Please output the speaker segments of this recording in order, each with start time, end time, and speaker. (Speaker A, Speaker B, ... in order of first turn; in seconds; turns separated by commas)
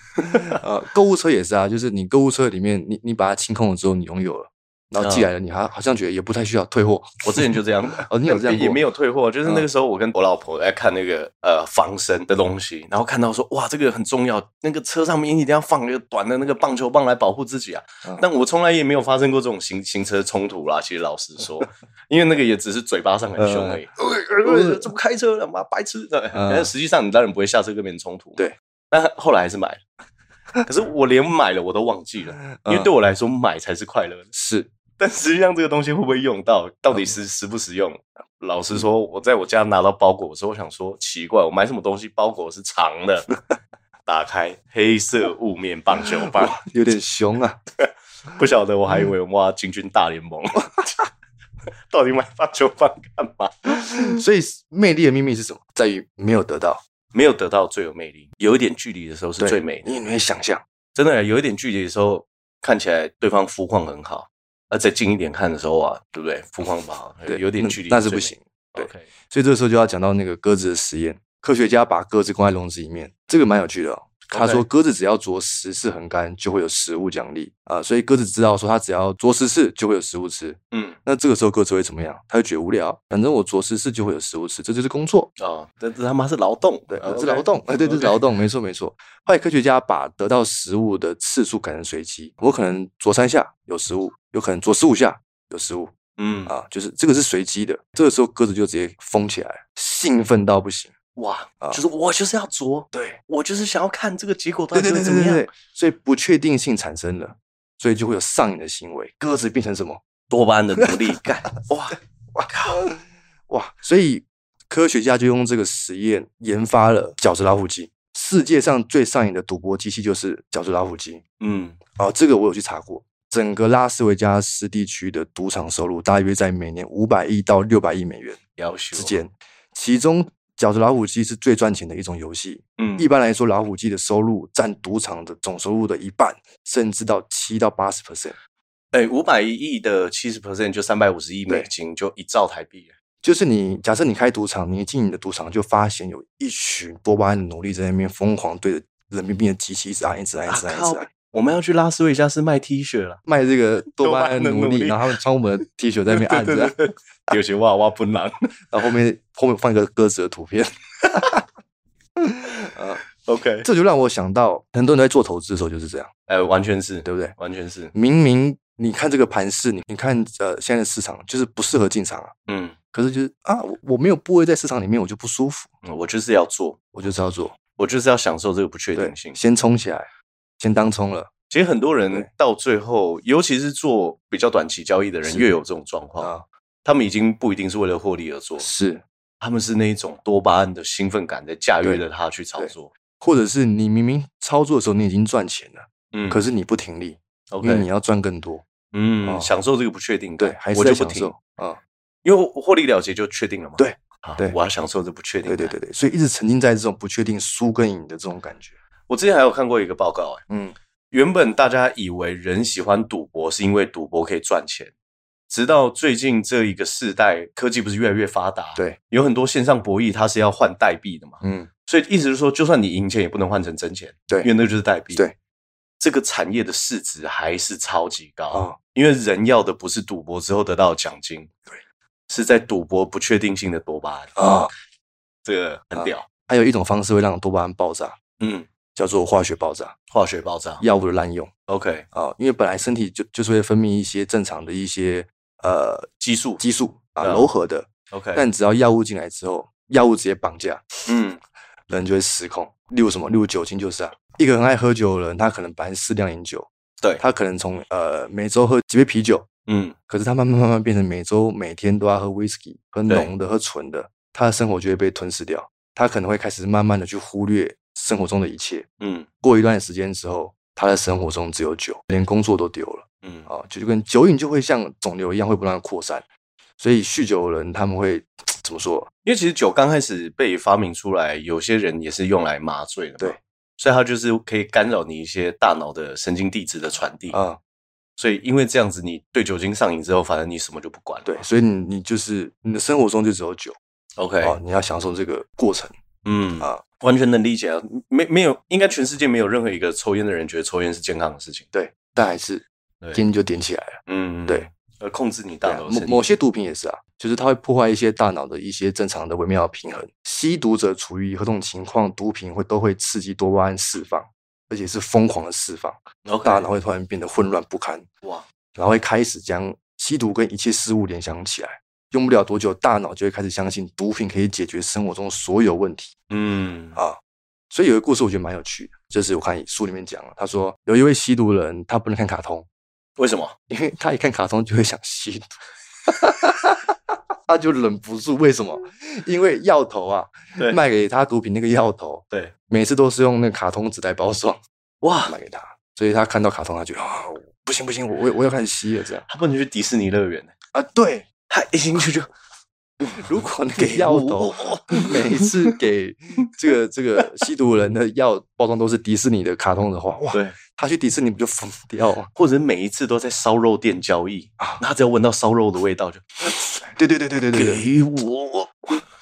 Speaker A: 0.2-7.4, Speaker B: 5.0-5.3, Speaker B: 7.2-28.4, Speaker A: 8.0-8.8, Speaker A: 23.4-24.9, Speaker A: 26.3-26.7, Speaker B: 28.9-29.8, Speaker B: 30.6-34.3, Speaker A: 32.6-32.9, Speaker A: 34.3-34.7, Speaker B: 35.0-43.3, Speaker B: 44.0-46.6, Speaker A: 46.2-47.6, Speaker B: 47.8-50.9, Speaker B: 51.9-54.1, Speaker A: 53.9-56.8, Speaker B: 57.1-59.9, Speaker A: 59.4-60.6, Speaker B: 60.9-69.1, Speaker A: 67.3-85.3, Speaker B: 74.3-74.7, Speaker B: 80.7-81.0, Speaker B: 85.4-88.2, Speaker A: 86.9-95.9, Speaker B: 96.2-96.5, Speaker A: 96.5-100.9, Speaker B: 101.2-105.5, Speaker A: 102.9-103.2, Speaker A: 104.7-110.0, Speaker B: 110.3-112.8, Speaker A: 112.3-121.2, Speaker B: 121.4-121.8, Speaker A: 122.0-128.4, Speaker B: 128.6-129.2, Speaker A: 128.9-138.3, Speaker B: 132.8-133.1, Speaker B: 138.9-142.9, Speaker A: 143.2-151.1, Speaker B: 150.5-153.2, Speaker A: 153.2-156.8, Speaker B: 153.9-155.1, Speaker B: 156.1-158.5, Speaker A: 158.7-161.4, Speaker A: 162.2-163.0, Speaker B: 163.2-163.7, Speaker A: 163.6-166.1, Speaker B: 166.3-167.9, Speaker A: 167.0-167.3, Speaker A: 167.9-172.3, Speaker B: 172.5-172.8, Speaker A: 172.9-175.7, Speaker B: 175.8-176.8, Speaker A: 176.9-177.6, Speaker B: 177.8-179.4, Speaker A: 178.9-180.1, Speaker A: 180.6-181.3, Speaker B: 181.5-186.3, Speaker A: 186.2-186.4, Speaker B: 186.8-188.7, Speaker A: 188.6-189.0, Speaker B: 189.4-192.9, Speaker A: 192.6-198.6, Speaker B: 196.1-196.4, Speaker B: 197.5-197.9, Speaker B: 198.9-201.3, Speaker A: 199.2-199.5, Speaker A: 200.4-201.8, Speaker B: 202.2-205.7, Speaker A: 203.8-204.6, Speaker A: 205.4-208.8, Speaker B: 209.1-210.4, Speaker A: 210.5-210.7, Speaker B: 211.1-214.9, Speaker B: 215.5-225.2, Speaker A: 221.4-221.7, Speaker B: 226.0-231.5, Speaker A: 228.5-228.8, Speaker B: 232.3-234.4, Speaker A: 234.3-234.7, Speaker B: 235.4-236.3, Speaker A: 235.9-238.2, Speaker B: 238.4-238.7, Speaker A: 238.9-239.9, Speaker B: 240.1-240.8, Speaker A: 240.8-241.5, Speaker B: 241.7-242.1, Speaker A: 242.1-246.1, Speaker B: 246.2-246.6, Speaker A: 246.6-250.9, Speaker B: 247.2-247.5, Speaker B: 248.1-248.4, Speaker B: 251.1-251.4, Speaker A: 251.9-256.7, Speaker A: 257.2-259.5, Speaker B: 259.7-259.9, Speaker A: 260.1-268.9, Speaker B: 269.0-269.3, Speaker A: 269.4-276.2, Speaker B: 273.2-273.5, Speaker A: 276.8-279.1, Speaker B: 279.2-287.4, Speaker A: 287.3-287.6, Speaker B: 288.2-291.4, Speaker A: 291.2-293.8, Speaker B: 294.2-294.6, Speaker A: 294.4-295.9, Speaker B: 296.2-301.6, Speaker A: 301.7-304.7, Speaker B: 304.1-306.3, Speaker A: 305.6-318.1, Speaker B: 316.2-316.7, Speaker A: 318.8-326.1, Speaker B: 326.3-327.0, Speaker A: 327.7-332.6, Speaker B: 333.2-333.6, Speaker A: 333.7-336.9, Speaker A: 337.5-344.6, Speaker B: 345.0-345.3, Speaker A: 345.2-349.2, Speaker B: 349.3-350.5, Speaker A: 350.7-351.2, Speaker B: 351.5-352.3, Speaker A: 353.0-362.3, Speaker B: 353.8-355.7, Speaker B: 362.3-366.3, Speaker A: 366.8-367.8, Speaker B: 367.5-369.0